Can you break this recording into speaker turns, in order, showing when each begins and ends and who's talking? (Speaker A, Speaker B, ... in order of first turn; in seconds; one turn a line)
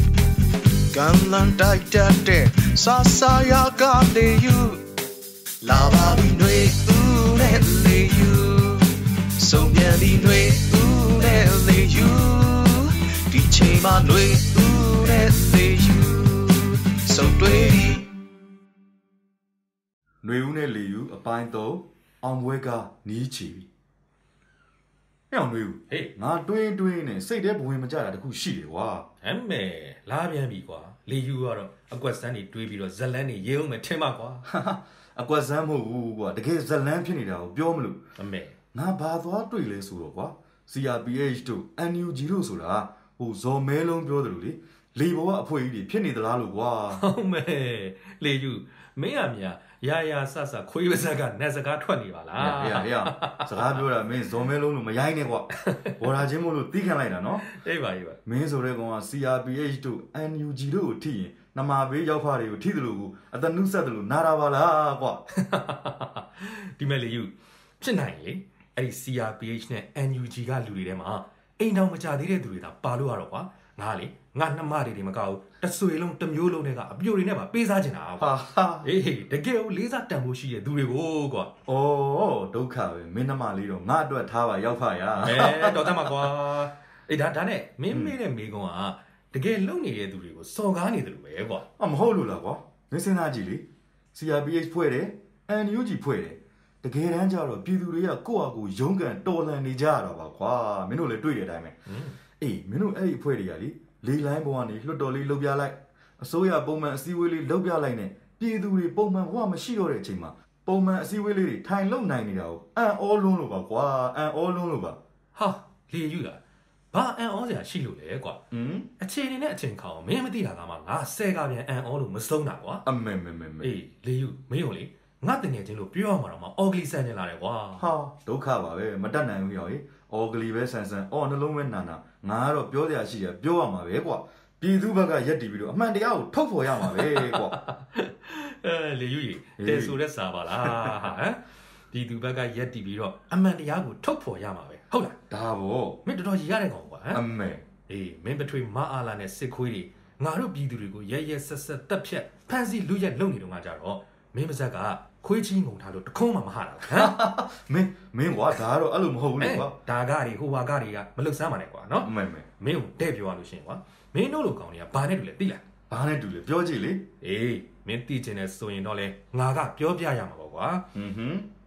Speaker A: 0.9-4.8
Speaker A: 5.6-18.1
Speaker B: 20.2-23.7
Speaker B: 25.3-29.1
Speaker C: 29.2-34.5
Speaker B: 34.5-38.0
Speaker C: 38.2-38.5
Speaker B: 38.7-47.0
Speaker C: 46.9-53.8
Speaker B: 52.4-57.5
Speaker C: 55.5-56.0
Speaker C: 57.4-58.2
Speaker B: 58.2-65.2
Speaker C: 65.3-81.5
Speaker B: 78.2-78.9
Speaker B: 81.7-86.2
Speaker C: 85.2-91.7
Speaker B: 87.9-88.2
Speaker B: 91.8-101.8
Speaker C: 101.9-102.2
Speaker B: 102.4-115.0
Speaker C: 115.3-116.4
Speaker C: 116.9-118.4
Speaker B: 118.5-118.9
Speaker C: 119.0-122.8
Speaker B: 122.8-123.7
Speaker C: 123.6-127.9
Speaker B: 127.8-137.6
Speaker C: 136.8-145.2
Speaker B: 139.6-140.0
Speaker B: 140.5-141.1
Speaker B: 145.3-146.0
Speaker C: 146.0-147.2
Speaker B: 147.1-147.7
Speaker C: 147.9-157.2
Speaker B: 156.9-159.8
Speaker C: 159.3-165.6
Speaker B: 162.0-162.5
Speaker B: 165.9-167.1
Speaker C: 167.2-170.9
Speaker B: 170.9-171.5